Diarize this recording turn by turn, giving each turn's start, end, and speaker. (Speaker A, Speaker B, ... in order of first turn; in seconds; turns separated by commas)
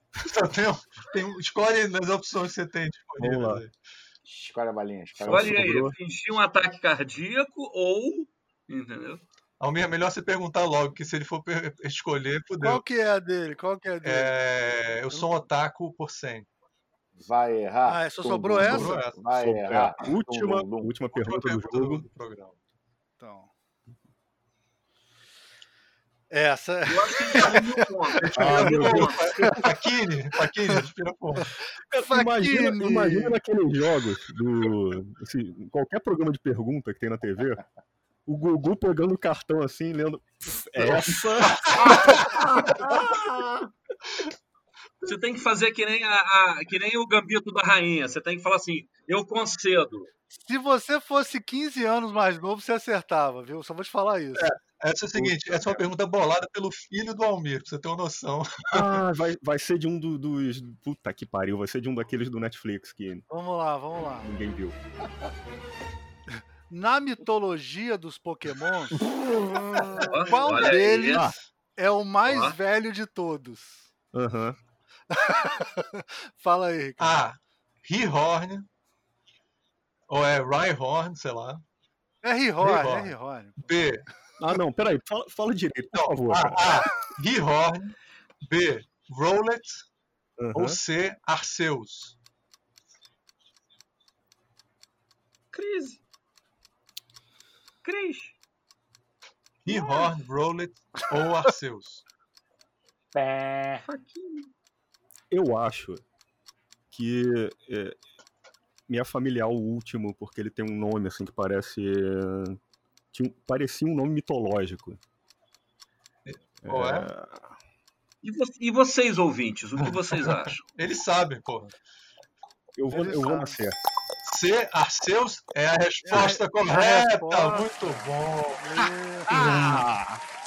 Speaker A: 0.2-3.7, Speaker B: 3.2-3.6, Speaker C: 4.2-5.7, Speaker B: 5.2-5.9, Speaker D: 5.3-9.2, Speaker A: 9.6-12.8, Speaker E: 12.6-14.4, Speaker A: 14.0-16.5, Speaker E: 15.1-15.4, Speaker C: 17.1-20.9, Speaker E: 17.9-19.0, Speaker A: 18.6-19.2, Speaker B: 19.3-22.0, Speaker A: 21.1-22.6, Speaker E: 23.2-23.5, Speaker E: 26.3-27.7, Speaker D: 26.9-29.2, Speaker A: 28.2-31.5, Speaker B: 28.3-29.2, Speaker B: 31.9-37.6, Speaker E: 32.0-33.4, Speaker B: 38.2-42.2, Speaker A: 41.5-42.0, Speaker C: 42.1-43.6, Speaker D: 45.0-50.1, Speaker E: 50.3-54.5, Speaker A: 54.3-59.0, Speaker B: 55.1-55.8, Speaker B: 58.7-63.2, Speaker E: 63.3-64.3, Speaker B: 64.2-64.8, Speaker E: 66.3-73.9, Speaker D: 70.1-71.3, Speaker B: 71.1-71.4, Speaker D: 72.3-72.5, Speaker B: 74.1-74.6, Speaker E: 75.1-77.2, Speaker A: 77.0-78.7, Speaker A: 80.1-81.6, Speaker E: 82.2-83.9, Speaker A: 82.6-84.0, Speaker B: 84.4-86.9, Speaker A: 85.9-89.8, Speaker B: 90.4-90.8, Speaker A: 90.5-92.2, Speaker D: 95.5-96.0, Speaker D: 97.8-98.3, Speaker A: 99.6-102.0, Speaker D: 99.7-100.1, Speaker C: 103.1-103.8, Speaker D: 103.8-104.5, Speaker B: 105.3-106.0, Speaker B: 106.9-108.0, Speaker B: 108.9-112.6, Speaker B: 113.1-115.0, Speaker A: 116.2-117.1, Speaker B: 116.6-117.5, Speaker D: 118.2-120.6, Speaker A: 120.2-121.7, Speaker B: 122.8-123.8, Speaker E: 122.9-123.6, Speaker A: 124.2-128.8, Speaker E: 126.0-129.4, Speaker B: 129.3-130.2, Speaker A: 129.3-129.7